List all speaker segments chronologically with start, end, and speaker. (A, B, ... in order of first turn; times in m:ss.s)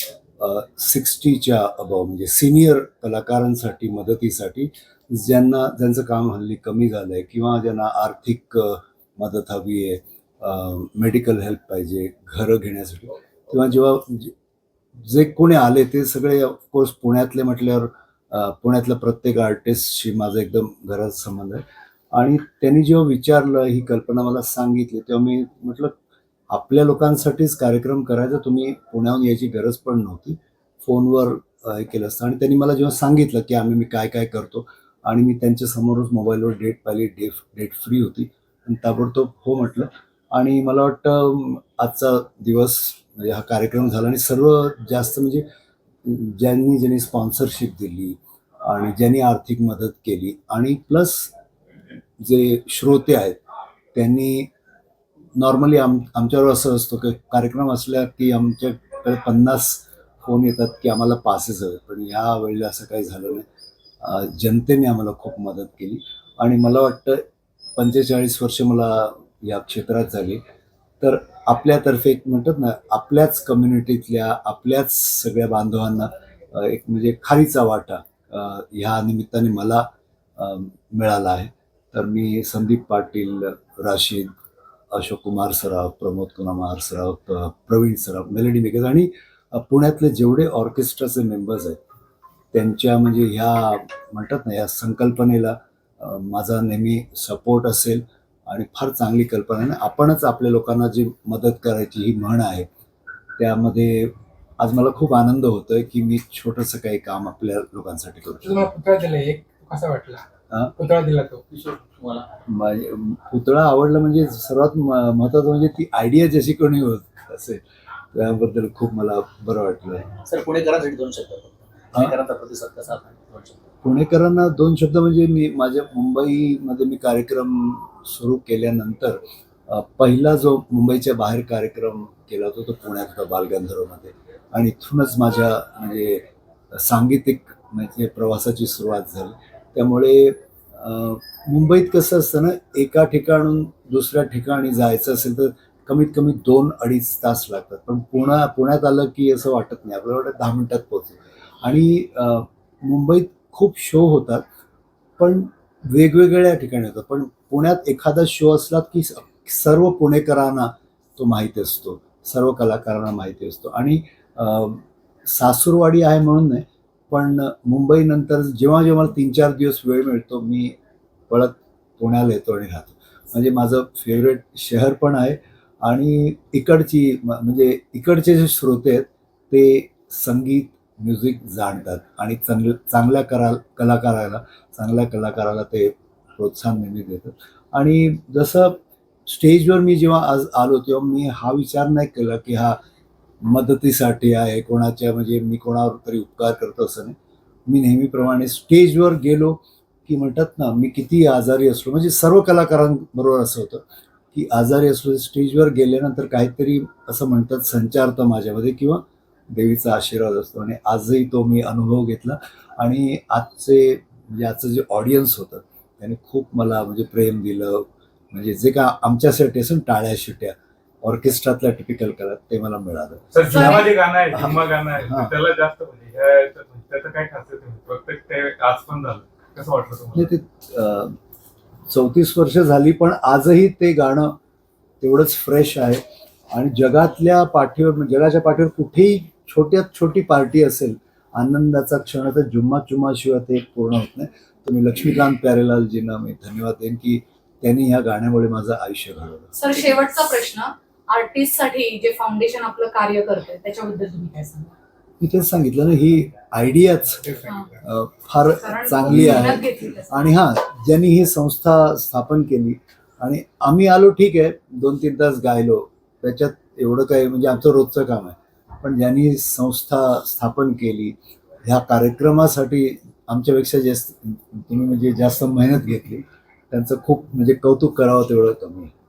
0:00.4-0:14.3 A
0:15.0-0:26.0 A
0:26.5-0:45.4 A
0:46.0-0:51.3 A
0:52.2-0:53.4 A
0:53.9-0:54.5 A
0:55.4-1:03.4 A
1:04.0-1:07.2 A
1:07.8-1:10.4 A
1:11.0-1:24.3 A
1:24.9-1:31.8 A
1:32.5-1:42.7 A
1:43.4-1:48.6 A
1:48.4-1:51.4 B
1:51.5-1:52.3 C
1:52.5-2:00.2 A
2:00.2-2:03.7 C
2:03.8-2:34.4 A
2:35.2-2:50.8 A
2:51.3-3:12.8 A
3:13.4-3:17.2 A
3:17.7-3:45.3 A
3:43.3-3:50.3 D
3:43.5-3:43.9 E
3:50.1-3:51.2 A
3:51.9-3:54.4 A
3:55.0-4:09.5 A
4:09.6-4:14.7 E
4:15.2-4:17.3 A
4:17.5-4:17.8 E
4:17.8-4:38.9 A
4:18.5-4:20.3 E